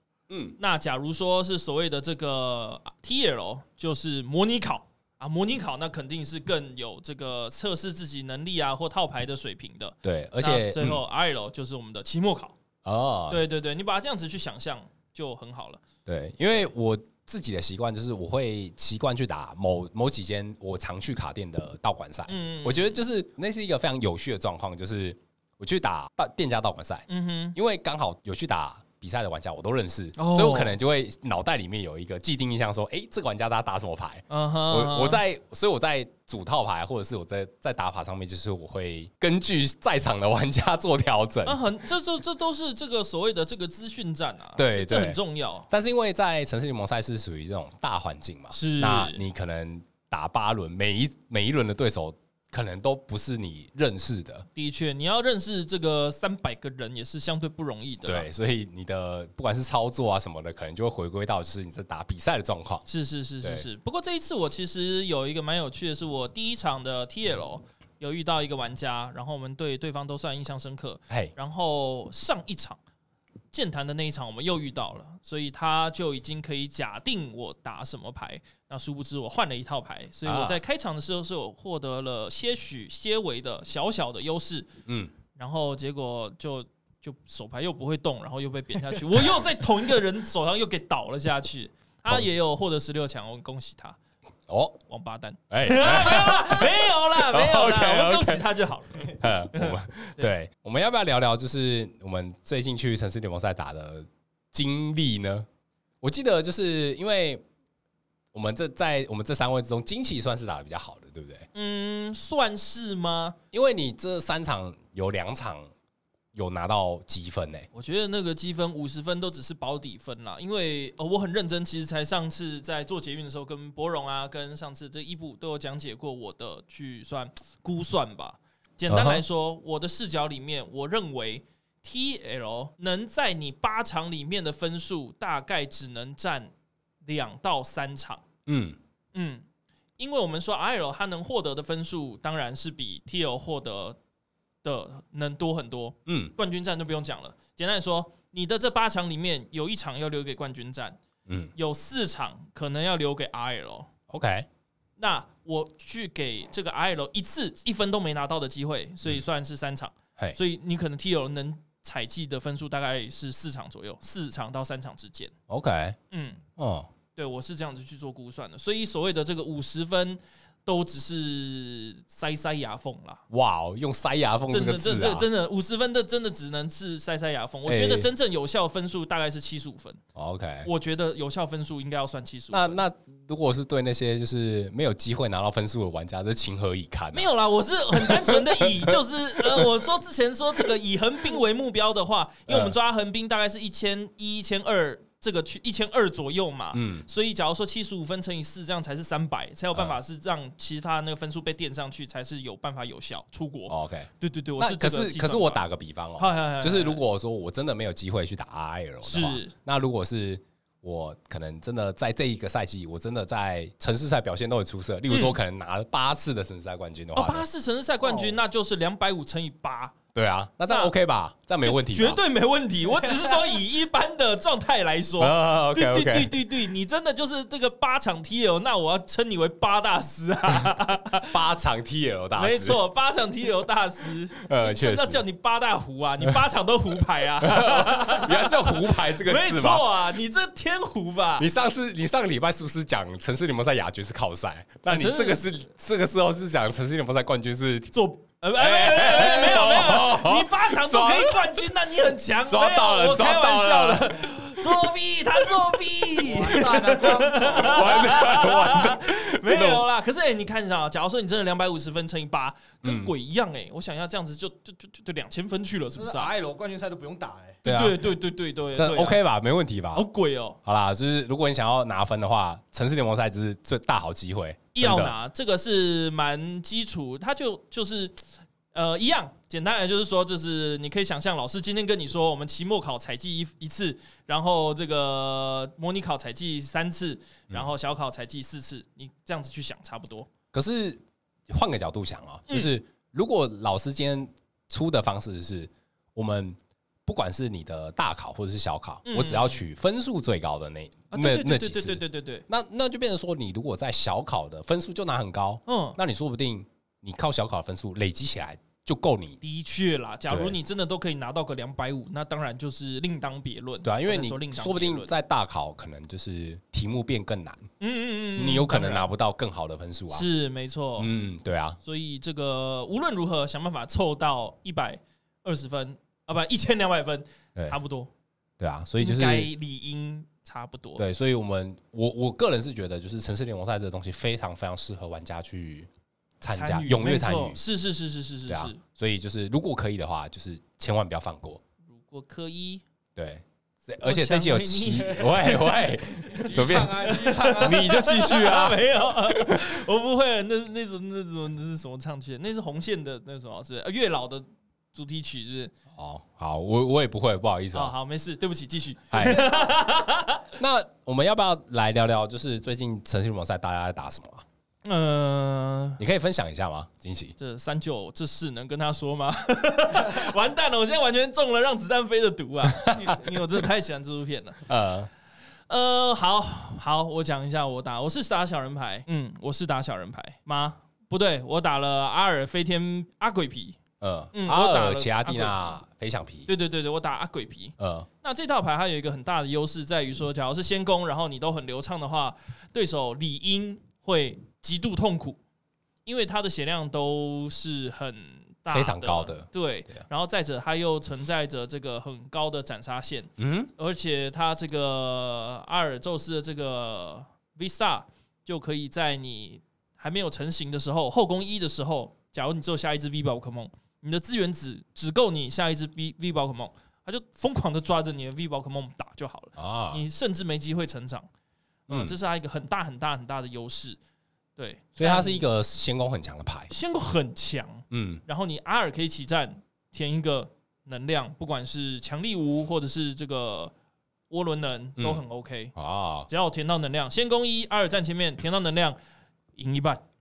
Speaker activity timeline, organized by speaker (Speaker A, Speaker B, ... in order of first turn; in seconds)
Speaker A: 0.3-0.6, 10.0-11.0, 12.8-13.4, 16.1-41.6, 44.5-54.5, 58.0-62.8, 80.2-80.6, 84.8-85.1, 94.5-94.8, 95.5-98.5, 99.2-105.5, 106.0-107.4, 108.3-111.5, 113.5-115.7, 116.3-117.7, 128.9-129.2, 138.4-138.8, 146.1-146.3, 151.2-151.5, 154.1-154.5, 165.5-166.0, 166.6-166.9, 173.3-175.3, 177.7-178.1, 180.1-180.7, 182.5-187.3, 187.9-189.7, 192.5-192.8, 196.7-197.1, 203.7-217.4, 220.1-222.2, 225.2-226.4, 231.3-232.8, 234.4-235.2, 237.4-239.8, 241.4-247.9, 248.5-251.8, 252.4-255.7, 257.4-259.9, 262.8-263.1, 267.6-268.1, 268.7-270.1, 270.6-275.1, 290.5-309.4, 310.3-310.6, 313.8-317.7, 318.4-320.3, 321.0-321.8, 328.6-329.5, 331.0-335.9, 336.4-337.6, 338.5-341.6, 343.1-349.7, 355.9-357.9, 359.1-359.6, 360.6-364.4, 366.0-367.3, 372.7-373.2, 374.6-375.1, 384.0-386.5, 387.8-388.1, 398.7-400.0, 403.4-403.7, 419.6-420.0, 421.9-422.1, 425.0-426.7, 427.9-428.2, 435.0-435.2, 435.7-436.3
Speaker B: 0.6-12.5, 13.3-15.8, 22.3-23.0, 27.1-27.6, 30.1-30.8, 34.3-35.2, 41.4-45.7, 48.5-49.2, 54.5-58.3, 62.9-72.8, 73.5-84.7, 85.3-94.0, 94.9-100.3, 111.5-113.3, 117.7-136.5, 137.0-138.2, 139.1-139.4, 140.0-144.0, 144.6-151.0, 151.5-153.9, 155.0-165.3, 166.1-166.4, 167.2-173.2, 174.5-180.0, 180.6-182.8, 187.1-205.6, 206.2-207.0, 209.0-209.5, 215.1-215.4, 217.1-220.0, 221.6-231.3, 232.3-241.5, 244.9-245.4, 247.9-266.3, 267.6-269.2, 269.9-270.6, 274.7-290.3, 299.1-299.6, 301.1-302.4, 305.7-306.0, 309.4-315.1, 317.8-319.1, 320.1-321.1, 321.8-328.1, 329.0-331.0, 336.5-338.8, 341.9-342.8, 344.0-355.7, 357.7-360.4, 364.8-366.0, 367.4-374.6, 375.7-383.8, 384.3-385.6, 386.5-395.4, 396.1-421.3, 421.9-424.0, 424.6-425.4, 426.7-433.7, 434.3-435.7, 436.3-439.0, 439.6-440.0
Speaker C: 218.0-218.4, 256.2-258.2, 265.9-267.6, 346.3-347.9